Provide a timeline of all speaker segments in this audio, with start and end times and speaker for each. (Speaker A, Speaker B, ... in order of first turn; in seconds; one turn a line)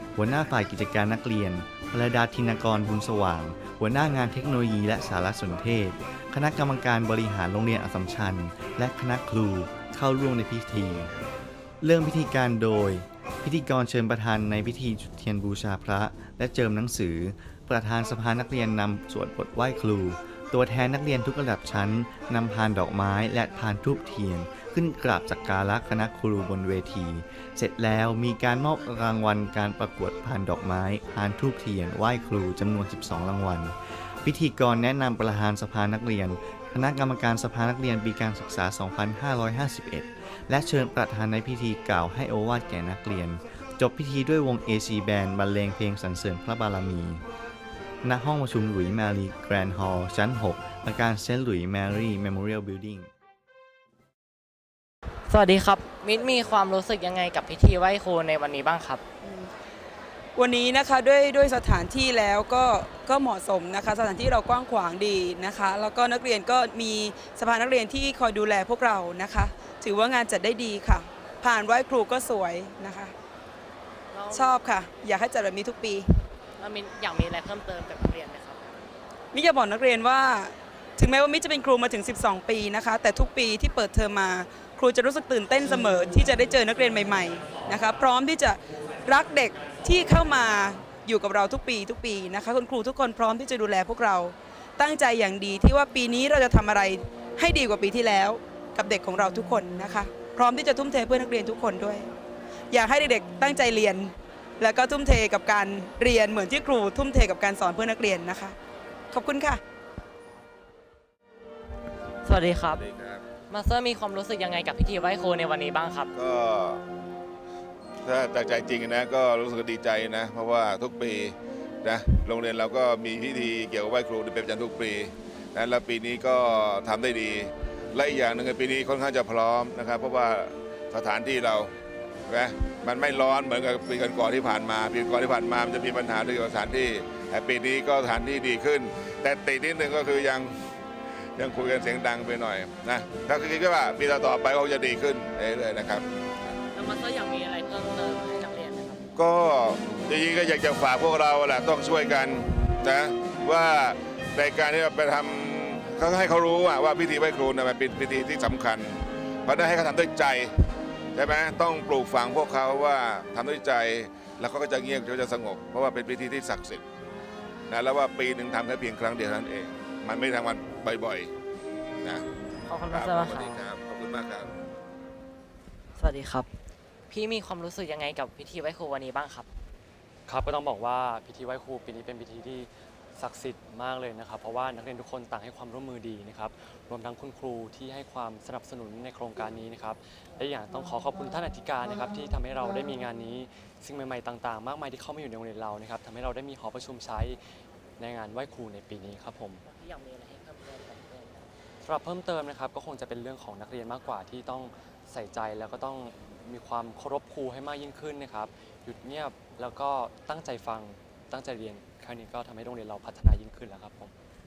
Speaker A: 0.1-11.1
Speaker A: 11.8-47.2
Speaker A: 48.0-53.1
Speaker B: 55.3-59.0
Speaker C: 59.2-59.5
Speaker C: 60.4-73.1
Speaker B: 74.1-74.6
Speaker C: 74.3-76.1
Speaker B: 76.6-78.6
Speaker C: 79.3-102.1
Speaker C: 102.7-108.6
Speaker C: 109.1-109.6
Speaker B: 112.2-112.8
Speaker D: 112.8-113.2
Speaker B: 113.5-116.1
Speaker D: 116.1-116.8
Speaker D: 118.0-131.7
Speaker D: 132.3-140.5
Speaker D: 141.3-146.1
Speaker B: 146.7-149.0
Speaker D: 149.1-160.5
Speaker D: 161.1-166.8
Speaker D: 167.7-171.3
Speaker B: 172.7-173.6
Speaker D: 172.9-174.5
Speaker B: 176.0-176.5
Speaker B: 177.1-179.4
Speaker E: 180.3-197.4
Speaker E: 198.0-199.6
Speaker B: 199.7-201.4
Speaker E: 201.8-214.1